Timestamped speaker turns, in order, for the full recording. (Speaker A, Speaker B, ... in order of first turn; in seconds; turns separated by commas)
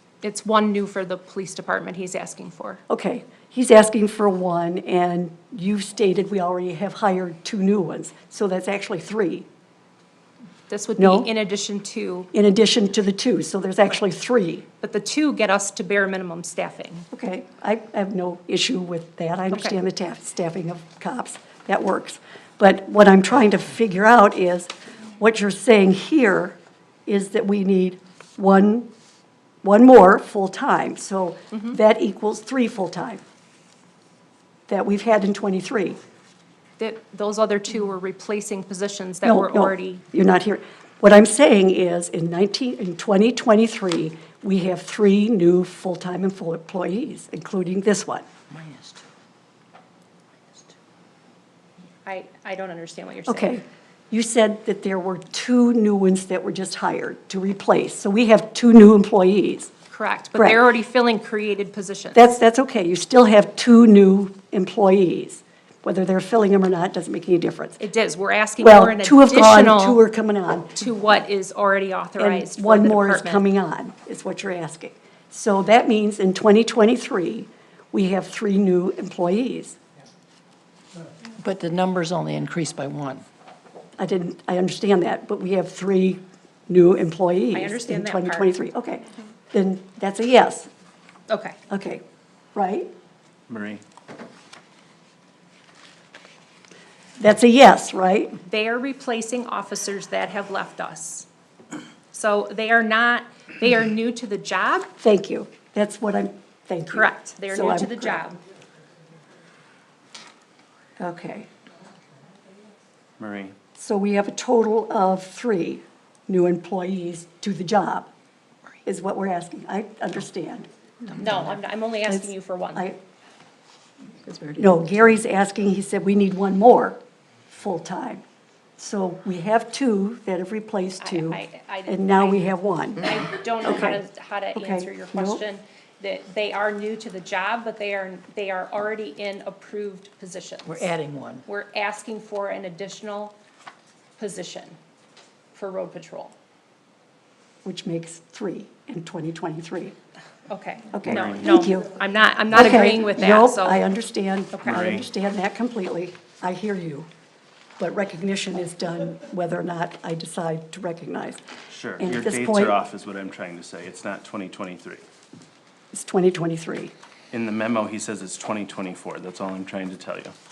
Speaker A: 0.2-2.8, Speaker B: 2.9-9.5, Speaker A: 10.7-12.3, Speaker B: 11.0-11.3, Speaker B: 12.3-14.7, Speaker A: 14.8-17.1, Speaker B: 17.1-28.9, Speaker B: 29.6-33.2, Speaker B: 34.7-36.0, Speaker A: 36.8-40.0, Speaker B: 39.2-48.3, Speaker C: 48.5-49.0, Speaker A: 52.0-53.6, Speaker B: 53.3-59.7, Speaker A: 59.9-62.2, Speaker B: 60.4-60.6, Speaker B: 62.1-67.8, Speaker A: 67.8-70.0, Speaker B: 68.6-70.8, Speaker A: 70.8-73.4, Speaker B: 72.2-79.8, Speaker C: 81.4-83.2, Speaker B: 84.0-90.7, Speaker A: 87.5-88.5, Speaker A: 91.3-91.6, Speaker B: 91.7-92.0, Speaker B: 92.5-92.9, Speaker D: 93.5-93.8, Speaker B: 97.2-98.4, Speaker A: 98.4-101.3, Speaker A: 102.1-104.9, Speaker B: 105.0-108.2, Speaker A: 106.9-108.4, Speaker B: 111.0-111.5, Speaker D: 113.2-113.5, Speaker B: 113.8-118.1, Speaker B: 118.8-120.7, Speaker A: 121.2-122.9, Speaker B: 122.1-123.0, Speaker C: 124.2-124.6, Speaker B: 124.6-128.2, Speaker B: 128.8-133.1, Speaker A: 131.0-140.9, Speaker B: 133.6-134.0, Speaker B: 134.6-135.4, Speaker C: 140.7-141.4, Speaker A: 141.5-143.3, Speaker A: 144.2-144.8, Speaker A: 145.6-146.3, Speaker B: 147.6-149.9, Speaker A: 150.5-153.8, Speaker B: 150.9-151.9, Speaker D: 151.1-151.3, Speaker B: 152.5-157.1, Speaker D: 154.7-155.1, Speaker B: 157.8-161.4, Speaker D: 161.7-165.0, Speaker B: 162.0-162.8, Speaker B: 165.9-166.9, Speaker D: 167.3-170.3